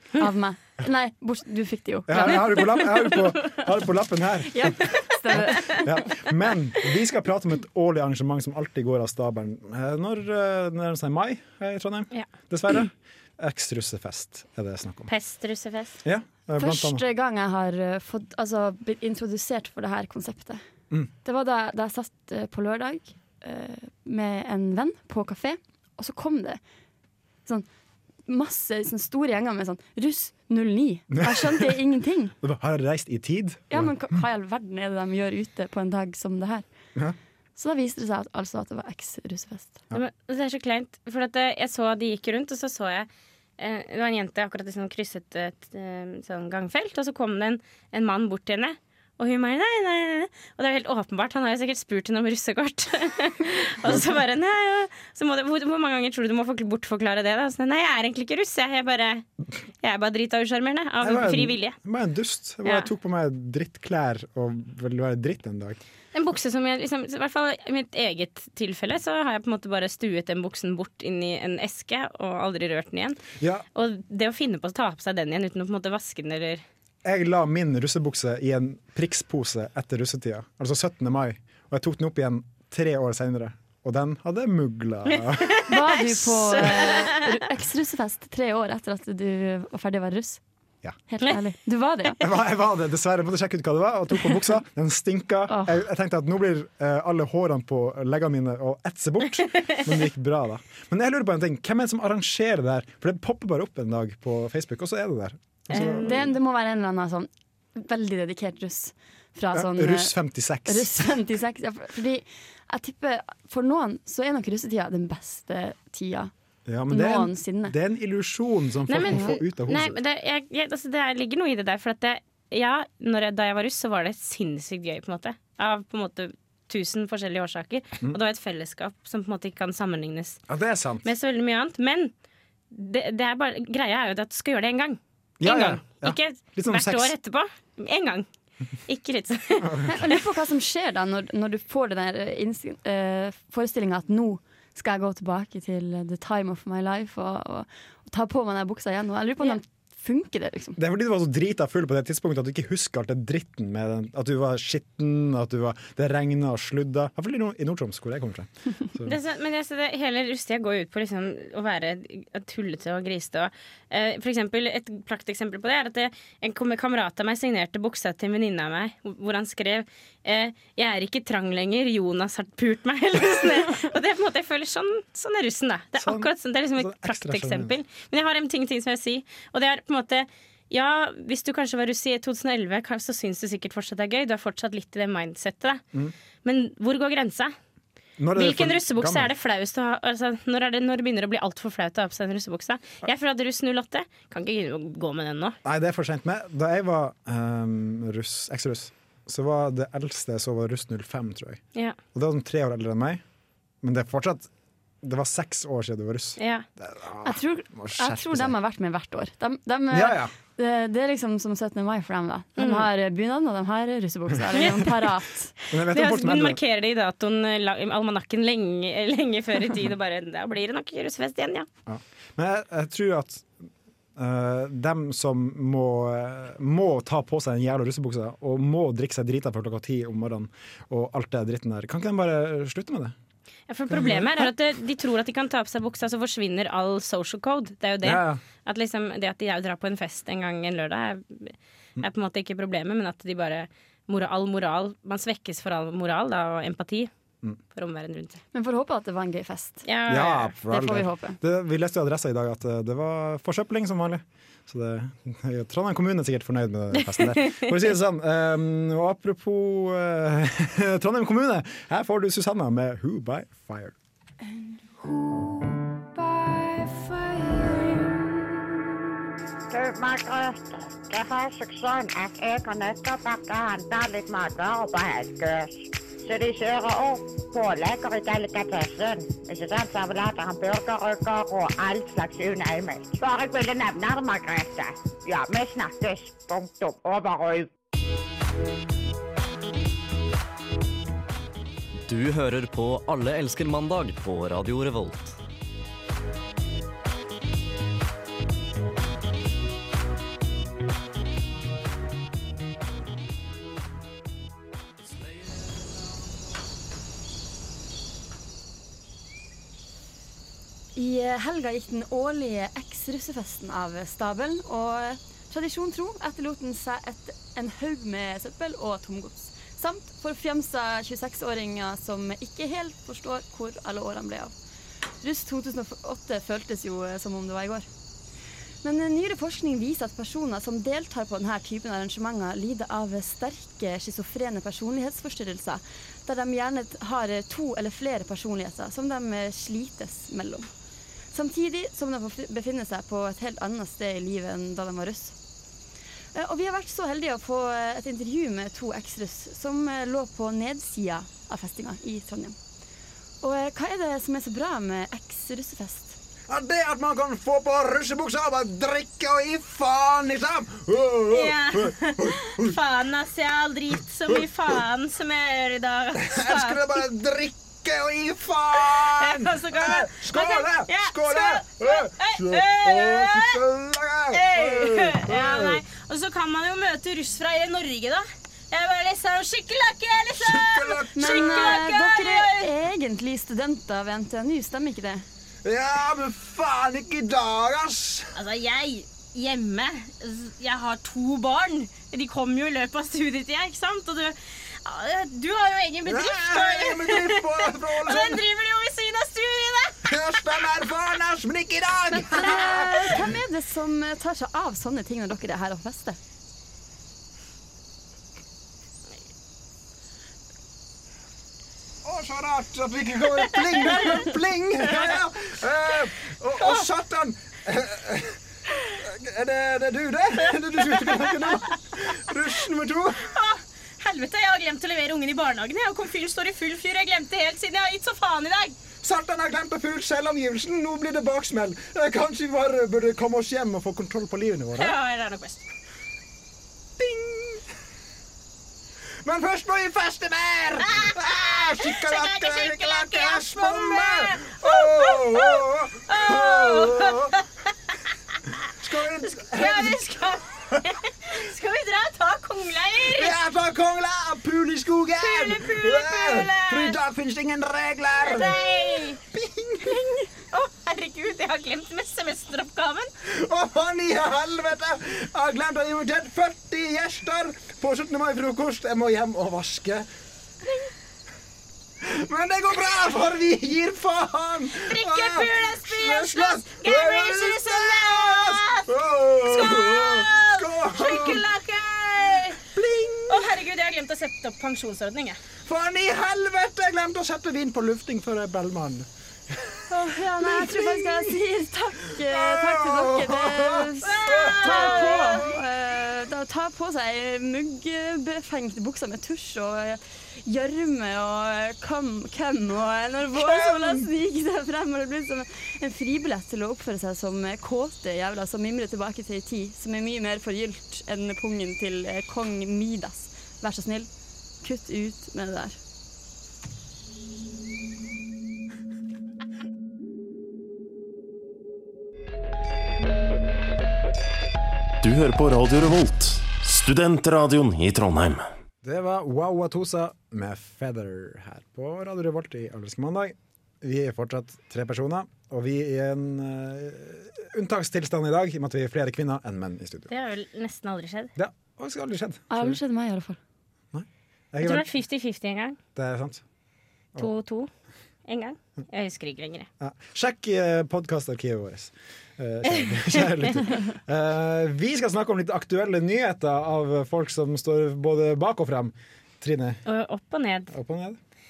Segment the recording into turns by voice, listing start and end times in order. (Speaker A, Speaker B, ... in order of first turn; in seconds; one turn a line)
Speaker A: 0.2-3.2
Speaker B: 2.1-15.1
Speaker A: 4.5-5.9
Speaker C: 15.1-16.0
Speaker B: 16.0-17.0
Speaker A: 16.6-20.6
Speaker A: 21.2-26.6
Speaker A: 28.3-32.3
Speaker B: 31.1-31.8
Speaker B: 32.4-34.2
Speaker A: 33.7-36.7
Speaker A: 37.6-39.8
Speaker C: 39.9-43.1
Speaker C: 43.6-59.2
Speaker C: 59.8-61.8
Speaker B: 61.0-65.8
Speaker C: 66.1-73.2
Speaker B: 73.4-73.6
Speaker C: 73.8-76.6
Speaker B: 77.0-85.6
Speaker C: 85.1-87.3
Speaker A: 85.7-90.4
Speaker A: 91.1-92.2
Speaker B: 92.2-106.3
Speaker A: 95.5-95.8
Speaker C: 105.7-106.2
Speaker A: 105.7-110.2
Speaker B: 109.5-111.0
Speaker A: 110.7-116.3
Speaker B: 116.7-120.0
Speaker A: 116.9-117.8
Speaker C: 118.9-130.4
Speaker B: 130.5-131.1
Speaker C: 131.0-132.1
Speaker C: 132.7-138.3
Speaker B: 135.4-137.1
Speaker C: 138.9-140.2
Speaker B: 139.6-140.2
Speaker A: 139.9-150.8
Speaker B: 150.8-159.2
Speaker C: 159.1-185.8
Speaker B: 176.0-177.7
Speaker C: 186.4-187.5
Speaker B: 188.2-189.3
Speaker C: 188.3-195.6
Speaker B: 195.6-201.6
Speaker B: 202.1-203.2
Speaker B: 203.8-204.5
Speaker B: 205.0-208.5
Speaker C: 206.4-206.7
Speaker A: 207.2-215.5
Speaker B: 209.9-210.3
Speaker C: 212.6-212.9
Speaker C: 214.6-214.9
Speaker C: 215.7-221.7
Speaker B: 215.7-216.6
Speaker B: 221.9-223.5
Speaker B: 224.2-233.2
Speaker C: 233.7-247.1
Speaker B: 233.9-234.5
Speaker B: 238.0-238.4
Speaker C: 247.7-248.4
Speaker A: 248.5-249.8
Speaker C: 249.8-250.5
Speaker B: 250.1-263.9
Speaker A: 250.7-251.4
Speaker C: 257.2-257.7
Speaker A: 265.0-268.5
Speaker D: 269.7-287.7
Speaker E: 292.1-295.4
Speaker A: 311.0-324.6
Speaker A: 325.2-327.9
Speaker A: 328.8-340.7
Speaker A: 341.3-345.4
Speaker A: 346.3-352.6
Speaker A: 353.4-356.2
Speaker B: 356.5-362.8
Speaker C: 361.3-366.9
Speaker B: 366.2-375.8
Speaker C: 368.8-373.6
Speaker C: 374.3-382.7
Speaker B: 380.4-381.8
Speaker A: 381.2-385.2
Speaker B: 385.6-388.3
Speaker C: 388.4-400.2
Speaker B: 396.1-398.4
Speaker B: 400.1-403.4
Speaker A: 402.2-406.2
Speaker B: 412.0-423.3
Speaker C: 413.8-414.2
Speaker C: 414.9-415.2
Speaker C: 416.6-416.9
Speaker C: 423.2-428.8
Speaker B: 429.0-435.0
Speaker C: 434.8-435.7
Speaker B: 437.0-437.6
Speaker B: 439.2-447.4
Speaker C: 441.8-447.4
Speaker B: 448.8-450.8
Speaker C: 449.3-453.4
Speaker B: 453.1-460.3
Speaker C: 455.2-457.0
Speaker C: 458.2-459.2
Speaker C: 460.5-463.1
Speaker B: 463.2-470.1
Speaker B: 472.0-481.5
Speaker C: 474.8-478.9
Speaker C: 479.4-482.6
Speaker B: 482.7-483.6
Speaker C: 483.3-485.4
Speaker B: 485.6-489.9
Speaker A: 489.9-514.1
Speaker B: 490.4-491.4
Speaker B: 492.1-495.6
Speaker C: 494.0-495.5
Speaker B: 503.4-504.1
Speaker A: 514.6-515.8
Speaker F: 525.0-528.5
Speaker B: 528.8-540.1
Speaker C: 540.1-541.3
Speaker B: 541.4-542.8
Speaker A: 542.5-543.4
Speaker B: 543.9-544.9
Speaker C: 544.6-545.8
Speaker B: 546.0-546.4
Speaker C: 547.2-547.7
Speaker C: 548.3-549.7
Speaker B: 549.8-559.8
Speaker C: 559.9-560.7
Speaker B: 560.7-561.2